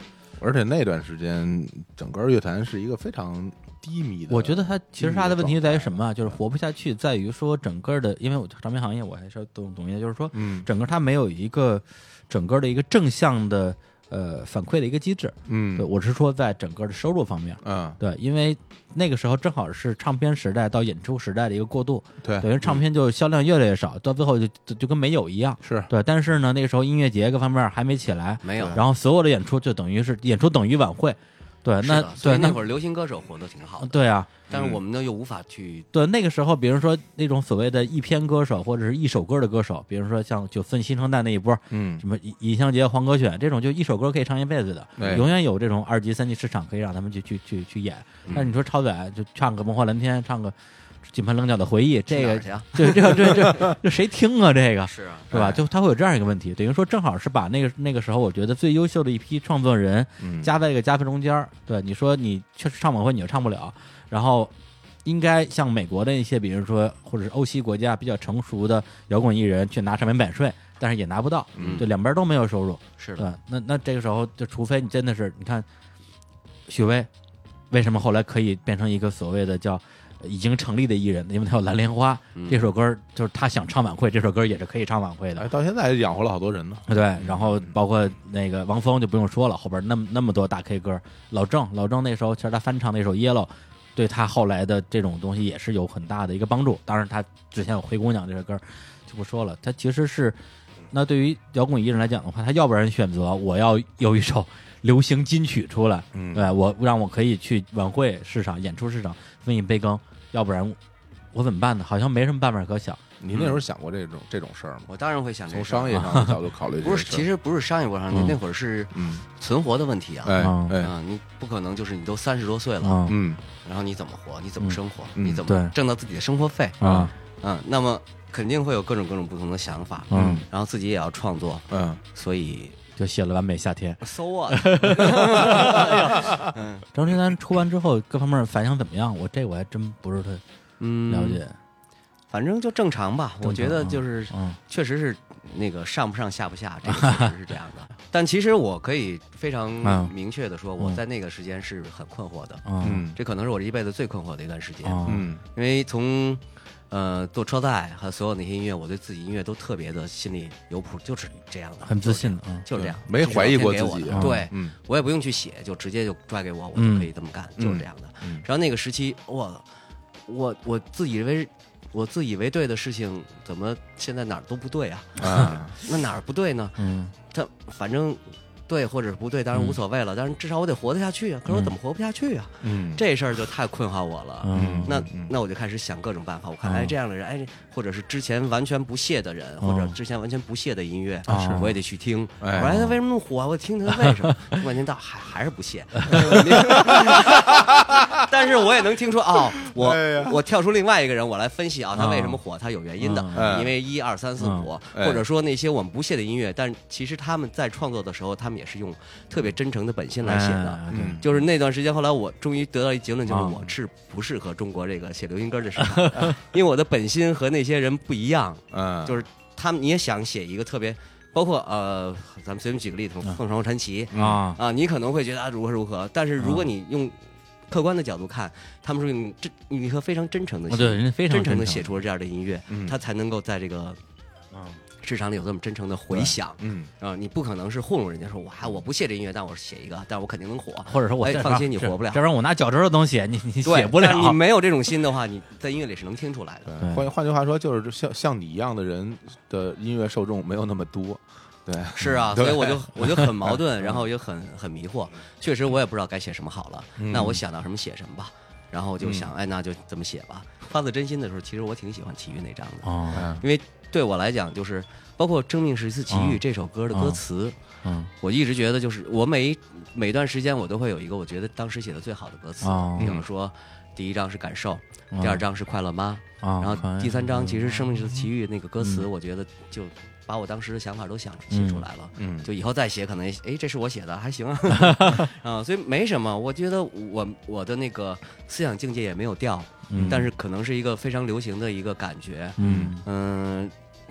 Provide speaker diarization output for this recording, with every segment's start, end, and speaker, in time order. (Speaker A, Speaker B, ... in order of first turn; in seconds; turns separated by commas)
Speaker A: 0.4-6.3, Speaker B: 4.3-32.6, Speaker A: 10.3-10.7, Speaker A: 15.5-15.9, Speaker A: 17.6-18.0, Speaker A: 22.2-22.8, Speaker A: 25.6-25.9, Speaker C: 28.4-28.8, Speaker C: 31.8-35.9, Speaker B: 33.8-34.3, Speaker A: 34.5-34.8, Speaker B: 35.9-64.5, Speaker A: 41.7-42.0, Speaker A: 45.0-45.3, Speaker C: 52.1-53.7, Speaker C: 54.9-55.4, Speaker A: 60.2-60.5, Speaker B: 65.0-75.7, Speaker C: 71.6-71.9, Speaker C: 73.0-73.3, Speaker B: 76.7-77.1, Speaker B: 77.7-85.5, Speaker C: 82.3-82.6, Speaker A: 85.3-87.7, Speaker B: 86.9-100.4, Speaker B: 100.9-110.8, Speaker A: 106.1-106.5, Speaker B: 111.3-113.0, Speaker A: 113.2-114.9, Speaker C: 113.3-113.6, Speaker C: 114.9-116.2, Speaker A: 115.5-117.3, Speaker B: 116.0-116.3, Speaker C: 116.8-123.1, Speaker B: 118.1-118.4, Speaker A: 118.9-119.2, Speaker A: 120.2-120.9, Speaker B: 120.3-120.8, Speaker B: 122.8-123.2, Speaker A: 123.0-123.4, Speaker C: 123.6-132.8, Speaker A: 125.2-125.4, Speaker B: 125.4-125.7, Speaker B: 126.8-127.1, Speaker A: 126.8-127.1, Speaker B: 130.1-130.4, Speaker A: 130.1-130.4, Speaker A: 131.7-132.0, Speaker B: 133.0-136.3, Speaker C: 134.0-136.9, Speaker A: 135.5-136.1, Speaker B: 136.9-140.4, Speaker C: 140.8-141.4, Speaker B: 141.1-141.6, Speaker C: 142.3-169.6, Speaker B: 143.4-144.6, Speaker B: 146.9-147.3, Speaker B: 149.8-150.1, Speaker B: 152.7-153.1, Speaker A: 152.8-153.2, Speaker B: 154.8-155.3, Speaker A: 155.1-155.4, Speaker B: 161.8-162.6, Speaker A: 162.7-164.7, Speaker B: 164.1-164.5, Speaker B: 166.7-167.1, Speaker A: 167.6-168.4, Speaker C: 170.3-234.0, Speaker A: 175.2-175.7, Speaker B: 176.8-177.1, Speaker B: 181.5-181.7, Speaker A: 182.6-183.0, Speaker B: 184.4-185.0, Speaker A: 184.5-185.3, Speaker B: 186.6-186.9, Speaker B: 189.6-189.9, Speaker B: 191.3-191.8, Speaker A: 191.3-191.8, Speaker A: 192.4-193.0, Speaker B: 193.9-194.5, Speaker B: 196.0-197.3, Speaker A: 196.6-198.2, Speaker A: 199.6-200.4, Speaker B: 201.9-202.4, Speaker B: 203.0-203.6, Speaker A: 203.3-203.8, Speaker B: 204.4-204.7, Speaker A: 204.9-205.2, Speaker B: 210.2-211.2, Speaker A: 210.9-211.4, Speaker B: 213.3-213.6, Speaker B: 215.8-216.3, Speaker A: 218.7-219.2, Speaker A: 224.1-224.4, Speaker B: 224.1-224.6, Speaker B: 226.4-226.6, Speaker B: 230.7-232.0, Speaker A: 232.7-233.0, Speaker B: 234.5-234.8, Speaker C: 235.0-242.2, Speaker A: 236.1-236.9, Speaker B: 240.8-244.4, Speaker C: 243.6-246.8, Speaker A: 246.7-254.1, Speaker B: 246.8-247.1, Speaker C: 251.9-267.6, Speaker A: 257.0-257.4, Speaker A: 259.0-259.3, Speaker B: 262.8-263.3, Speaker A: 263.1-263.4, Speaker B: 266.1-266.4, Speaker B: 266.9-267.2, Speaker B: 267.8-268.1, Speaker C: 268.2-293.7, Speaker B: 272.6-273.1, Speaker A: 273.0-273.2, Speaker B: 275.1-275.4, Speaker B: 276.4-277.5, Speaker B: 278.8-279.1, Speaker B: 281.5-281.9, Speaker A: 282.2-282.5, Speaker B: 284.7-285.3, Speaker B: 289.9-290.3, Speaker A: 289.9-290.3, Speaker B: 292.6-293.0, Speaker A: 292.6-292.9